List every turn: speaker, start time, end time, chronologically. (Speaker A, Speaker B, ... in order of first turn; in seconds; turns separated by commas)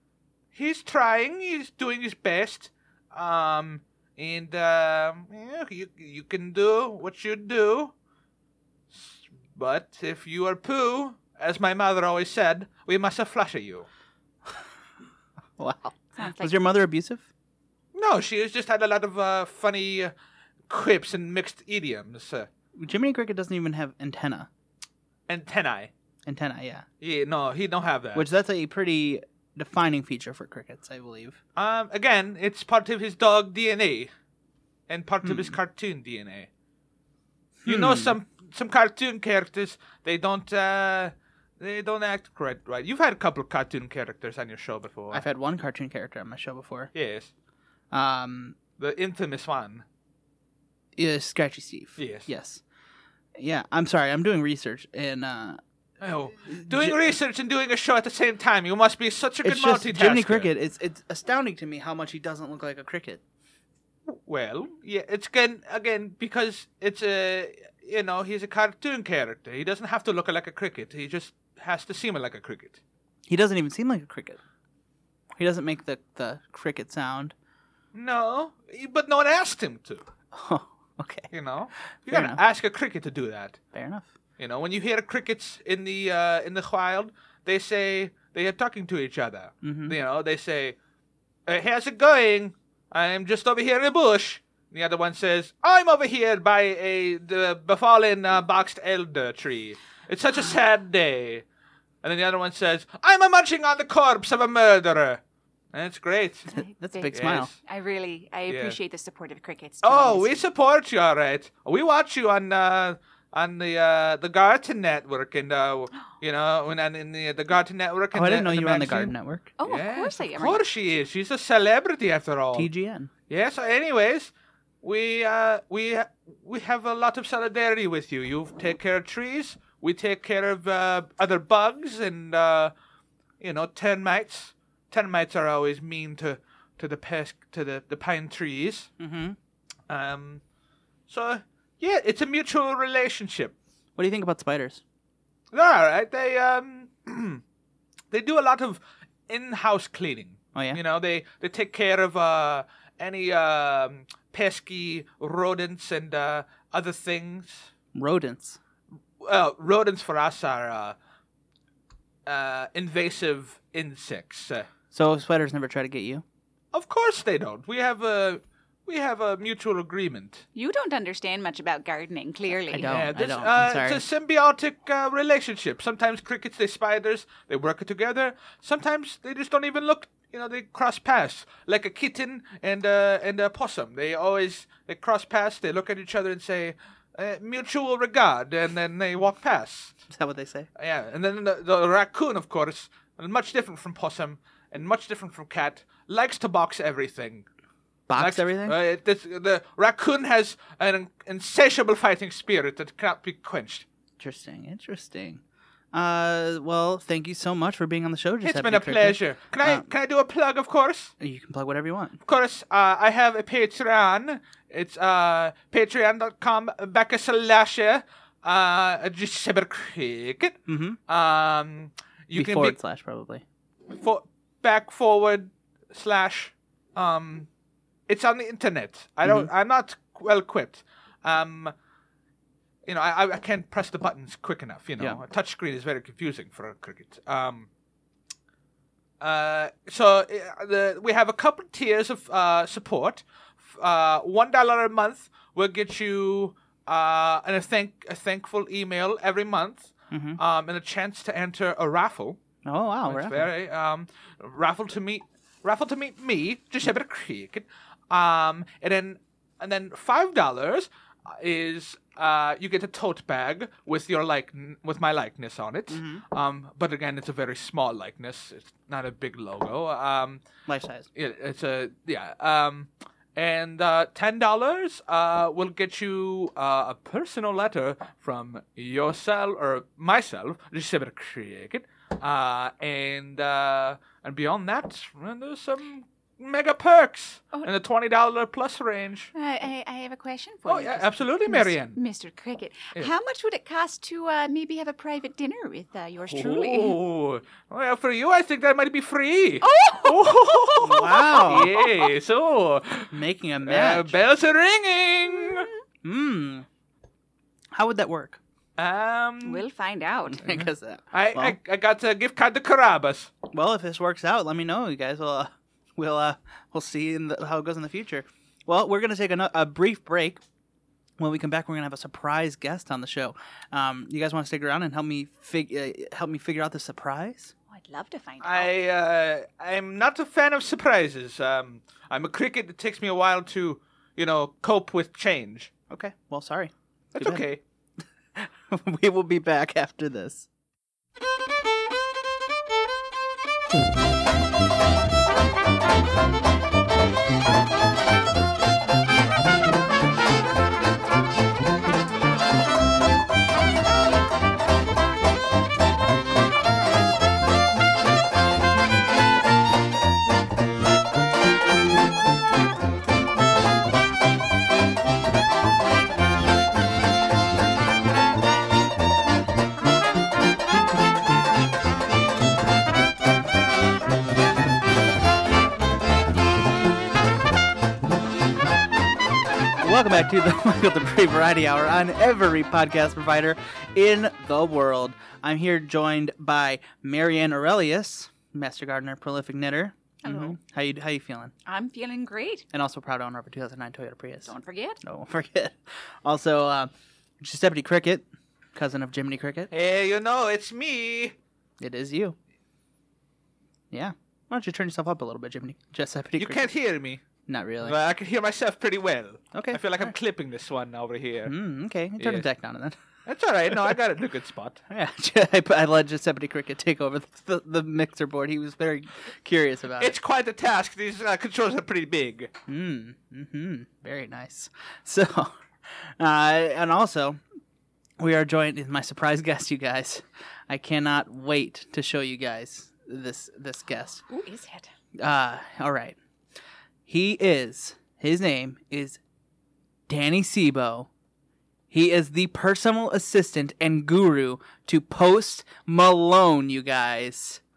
Speaker A: 0.5-7.9, Speaker A: 8.9-13.9, Speaker B: 15.6-17.3, Speaker C: 16.1-16.6, Speaker A: 17.9-20.1, Speaker A: 20.7-22.5, Speaker B: 22.8-24.5, Speaker A: 25.3-25.9, Speaker B: 26.2-26.9, Speaker A: 27.0-28.2, Speaker B: 28.1-31.4, Speaker A: 31.6-34.1, Speaker A: 34.9-36.5, Speaker B: 35.2-35.6, Speaker B: 37.6-38.2, Speaker A: 37.6-45.2, Speaker B: 45.1-46.9, Speaker A: 46.9-47.3, Speaker B: 47.9-48.6, Speaker A: 48.8-49.8, Speaker B: 51.0-52.6, Speaker A: 52.0-52.3, Speaker B: 53.4-55.6, Speaker A: 56.0-60.5, Speaker B: 56.5-57.1, Speaker B: 59.4-63.2, Speaker A: 64.1-72.8, Speaker B: 73.3-74.4, Speaker B: 75.3-77.3, Speaker A: 77.9-80.1, Speaker B: 80.3-81.3, Speaker A: 81.3-83.6, Speaker B: 82.1-82.4, Speaker B: 83.7-84.1, Speaker A: 84.4-90.8, Speaker B: 89.6-90.0, Speaker A: 91.5-101.4, Speaker A: 102.0-105.2, Speaker A: 105.7-106.5, Speaker C: 106.5-110.4, Speaker B: 106.6-107.5, Speaker A: 107.1-107.5, Speaker A: 108.5-108.8, Speaker A: 109.8-122.7, Speaker B: 118.1-119.5, Speaker C: 119.6-120.6, Speaker B: 122.5-123.1, Speaker A: 123.3-124.3, Speaker A: 124.8-132.7, Speaker A: 133.4-138.9, Speaker B: 139.0-139.4, Speaker A: 139.9-140.4, Speaker A: 141.1-143.5, Speaker B: 143.9-144.8, Speaker A: 145.5-147.4, Speaker A: 148.1-157.7, Speaker B: 150.5-150.8, Speaker B: 157.9-158.6, Speaker A: 159.2-161.0, Speaker A: 162.2-164.7, Speaker B: 164.9-166.2, Speaker A: 166.7-170.4, Speaker C: 170.5-172.9, Speaker B: 172.7-174.0, Speaker A: 172.8-190.0, Speaker B: 190.1-190.7, Speaker A: 190.8-197.4, Speaker B: 198.1-198.8, Speaker A: 198.2-203.8, Speaker B: 204.2-205.4, Speaker B: 205.9-209.9, Speaker A: 208.4-211.1, Speaker B: 211.2-212.2, Speaker A: 212.2-222.8, Speaker B: 220.7-221.0, Speaker B: 222.3-223.4, Speaker A: 223.9-227.5, Speaker A: 228.1-231.7, Speaker B: 229.2-229.5, Speaker A: 232.8-237.7, Speaker A: 239.2-252.4, Speaker B: 250.1-250.4, Speaker B: 252.6-253.5, Speaker A: 253.0-270.4, Speaker B: 265.9-266.2, Speaker B: 270.7-271.1, Speaker A: 271.1-289.3, Speaker C: 289.3-297.0, Speaker A: 290.6-292.0, Speaker A: 296.3-305.7, Speaker C: 299.6-302.1, Speaker B: 300.8-301.7, Speaker B: 303.1-304.1, Speaker B: 306.0-306.6, Speaker B: 307.7-308.4, Speaker A: 308.8-309.6, Speaker C: 309.4-310.6, Speaker B: 310.3-311.6, Speaker A: 311.1-313.3, Speaker B: 313.5-320.4, Speaker B: 321.2-327.5, Speaker C: 327.7-328.7, Speaker A: 328.4-335.7, Speaker B: 335.9-337.4, Speaker A: 337.1-337.6, Speaker B: 338.4-340.5, Speaker B: 379.8-391.5, Speaker C: 390.2-390.6, Speaker C: 391.6-392.6, Speaker B: 392.7-399.7, Speaker C: 394.4-395.0, Speaker A: 399.7-401.3, Speaker B: 401.8-402.4, Speaker B: 403.9-406.7, Speaker A: 406.4-407.2, Speaker B: 407.5-408.0, Speaker A: 407.8-411.5, Speaker B: 409.5-410.1, Speaker B: 411.4-413.0, Speaker A: 412.2-412.4, Speaker A: 413.2-414.8, Speaker B: 414.9-420.1, Speaker A: 420.0-422.5, Speaker B: 422.7-427.4, Speaker B: 428.2-434.2, Speaker C: 434.3-434.9, Speaker B: 435.2-436.2, Speaker B: 437.1-439.2, Speaker B: 440.1-441.1, Speaker B: 441.9-447.6